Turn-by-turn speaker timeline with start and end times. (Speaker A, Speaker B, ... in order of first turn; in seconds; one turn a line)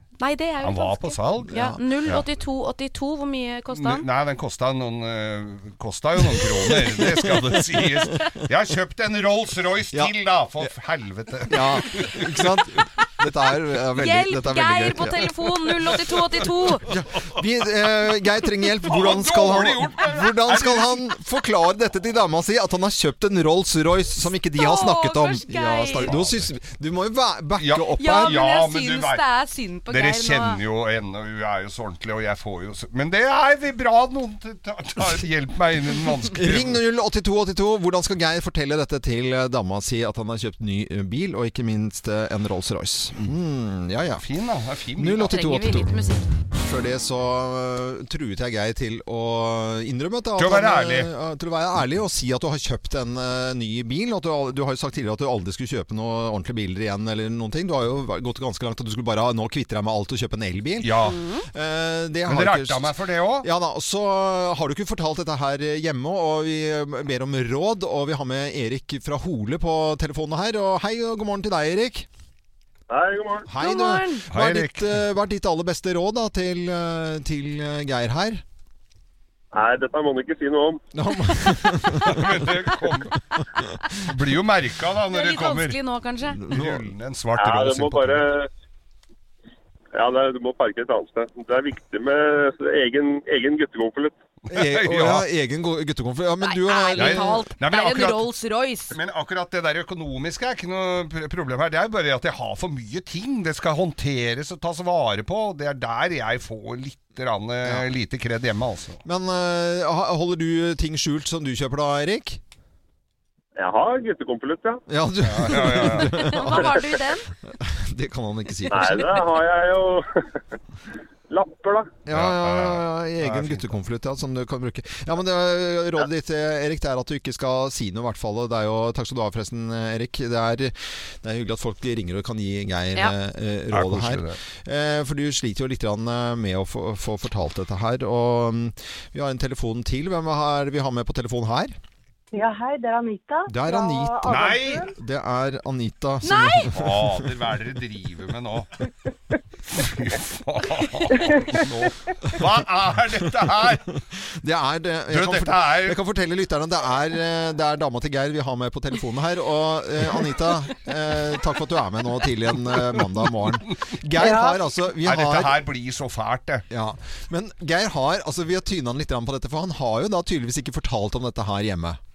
Speaker A: 0.2-4.0
Speaker B: 0.6-2.2
Speaker C: 1.5-1.8
Speaker B: 3.7-12.5
Speaker C: 9.9-10.7
Speaker C: 11.5-15.2
Speaker A: 14.0-16.9
Speaker C: 16.9-28.4
Speaker B: 18.8-21.1
Speaker A: 24.5-26.1
Speaker B: 26.0-26.5
Speaker B: 27.6-29.2
Speaker A: 27.9-30.6
Speaker B: 29.9-36.8
Speaker C: 36.3-44.2
Speaker B: 44.2-45.4
Speaker C: 45.0-45.9
Speaker A: 45.2-46.3
Speaker C: 46.5-60.9
Speaker B: 50.4-51.1
Speaker B: 60.8-61.2
Speaker A: 61.0-61.5
Speaker C: 61.5-72.1
Speaker B: 62.3-63.5
Speaker D: 72.9-73.5
Speaker C: 73.5-78.4
Speaker A: 73.6-74.2
Speaker B: 74.3-75.0
Speaker D: 79.5-80.8
Speaker C: 80.9-82.4
Speaker B: 82.0-83.2
Speaker B: 83.9-85.8
Speaker A: 85.1-86.4
Speaker C: 86.3-86.9
Speaker B: 86.5-88.3
Speaker D: 87.4-88.5
Speaker D: 89.9-94.2
Speaker B: 94.5-95.2
Speaker C: 94.5-97.4
Speaker A: 96.4-98.9
Speaker B: 97.0-98.2
Speaker B: 98.9-109.0
Speaker C: 109.0-112.4
Speaker D: 113.5-114.8
Speaker C: 114.9-116.7
Speaker B: 115.2-116.3
Speaker A: 116.0-117.3
Speaker C: 117.5-119.2
Speaker D: 118.7-120.3
Speaker D: 121.3-121.9
Speaker C: 122.0-141.7
Speaker B: 122.1-123.7
Speaker B: 133.7-134.4
Speaker E: 142.3-144.9
Speaker C: 143.5-147.3
Speaker B: 144.3-144.9
Speaker A: 146.2-146.7
Speaker B: 146.7-148.7
Speaker B: 149.7-153.9
Speaker C: 151.7-152.4
Speaker C: 154.1-165.6
Speaker B: 155.1-156.0
Speaker E: 164.2-164.6
Speaker B: 165.0-166.6
Speaker C: 166.7-172.0